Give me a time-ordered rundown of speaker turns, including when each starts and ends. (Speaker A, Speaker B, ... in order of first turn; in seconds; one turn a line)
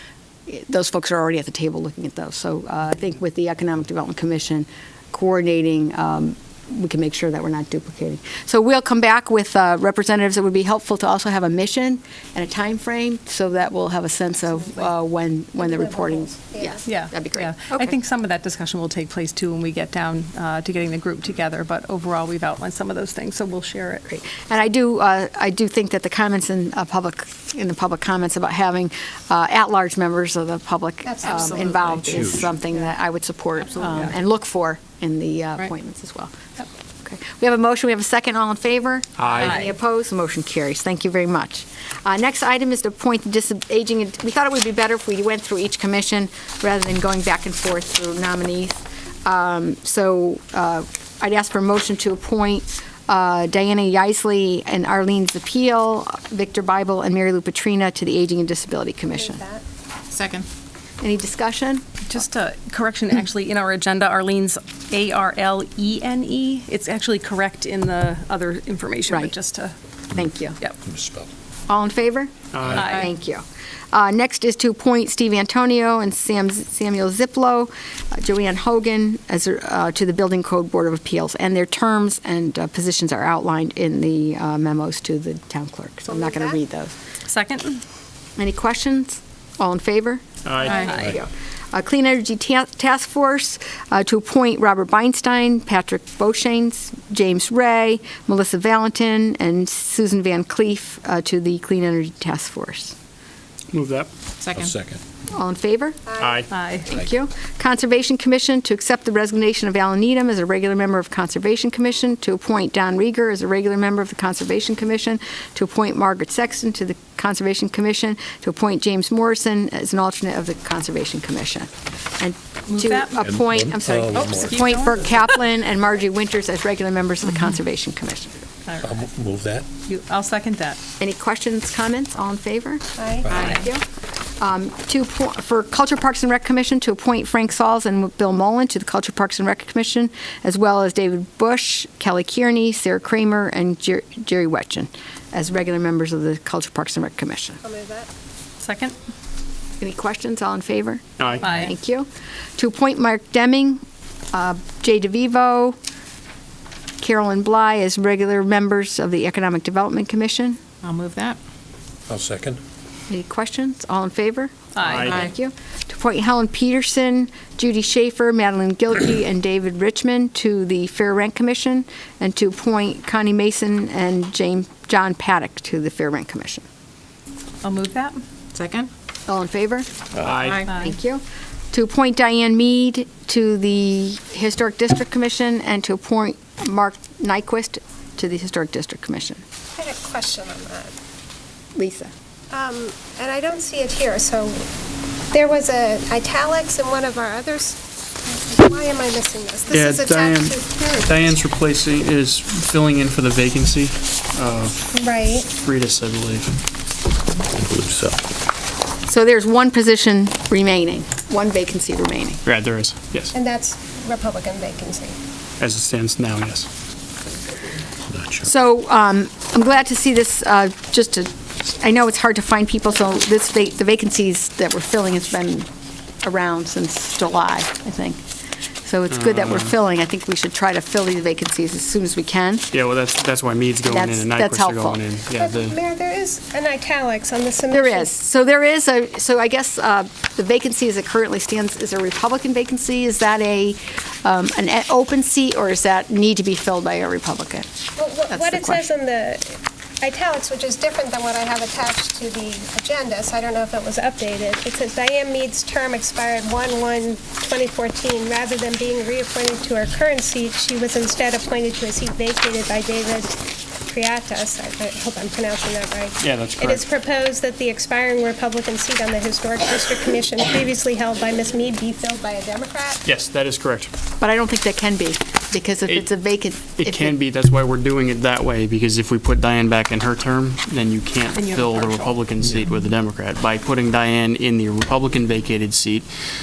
Speaker A: 0.5-17.9
Speaker B: 15.6-16.8
Speaker C: 16.9-24.0
Speaker A: 24.1-59.4
Speaker B: 31.1-32.1
Speaker C: 31.4-32.1
Speaker D: 32.0-32.5
Speaker E: 39.2-39.5
Speaker C: 39.4-39.7
Speaker B: 59.1-59.6
Speaker F: 60.1-60.5
Speaker A: 61.0-61.9
Speaker C: 62.1-69.8
Speaker A: 70.1-70.6
Speaker D: 70.8-71.3
Speaker A: 71.7-87.0
Speaker E: 72.5-72.9
Speaker C: 72.8-73.1
Speaker B: 86.1-86.6
Speaker C: 87.3-87.8
Speaker A: 88.4-103.0
Speaker E: 90.5-91.2
Speaker F: 90.6-91.0
Speaker C: 90.8-91.2
Speaker E: 103.7-104.1
Speaker F: 104.4-104.7
Speaker D: 104.5-105.0
Speaker A: 105.3-106.1
Speaker B: 106.1-106.5
Speaker E: 106.2-106.5
Speaker C: 106.5-106.9
Speaker A: 106.9-128.4
Speaker C: 122.7-123.2
Speaker D: 123.2-124.8
Speaker C: 124.1-125.2
Speaker C: 128.7-129.0
Speaker D: 128.8-129.7
Speaker C: 129.9-130.8
Speaker A: 131.0-133.8
Speaker B: 133.0-133.4
Speaker D: 133.3-133.6
Speaker A: 134.4-147.6
Speaker B: 147.6-148.1
Speaker C: 148.6-149.0
Speaker A: 149.8-155.8
Speaker E: 151.2-151.5
Speaker C: 151.4-151.7
Speaker A: 157.0-160.6
Speaker F: 160.8-161.4
Speaker D: 162.1-162.6
Speaker A: 163.1-176.7
Speaker C: 164.8-165.1
Speaker E: 164.8-165.2
Speaker F: 165.0-165.3
Speaker C: 177.6-178.2
Speaker F: 178.5-178.9
Speaker A: 179.3-179.9
Speaker D: 180.1-180.5
Speaker E: 180.2-180.6
Speaker F: 180.4-180.7
Speaker C: 180.6-180.9
Speaker A: 180.7-189.4
Speaker B: 189.8-190.9
Speaker A: 191.8-192.1
Speaker B: 192.5-194.7
Speaker B: 195.3-201.3
Speaker E: 199.7-204.8
Speaker B: 204.9-205.5
Speaker E: 205.5-206.6
Speaker D: 207.5-208.2
Speaker A: 209.1-212.4
Speaker E: 212.4-213.3
Speaker B: 213.3-215.2
Speaker E: 215.6-216.7
Speaker D: 218.1-218.4
Speaker A: 218.4-225.7
Speaker A: 226.2-228.2
Speaker A: 228.8-232.7
Speaker E: 229.1-229.7
Speaker E: 232.7-235.8
Speaker A: 233.9-235.0
Speaker B: 235.3-238.1
Speaker A: 237.7-247.7
Speaker B: 248.0-273.0
Speaker A: 248.3-248.9
Speaker E: 266.2-266.8
Speaker E: 273.0-273.9
Speaker A: 274.2-277.2
Speaker E: 276.8-286.1
Speaker C: 281.4-282.2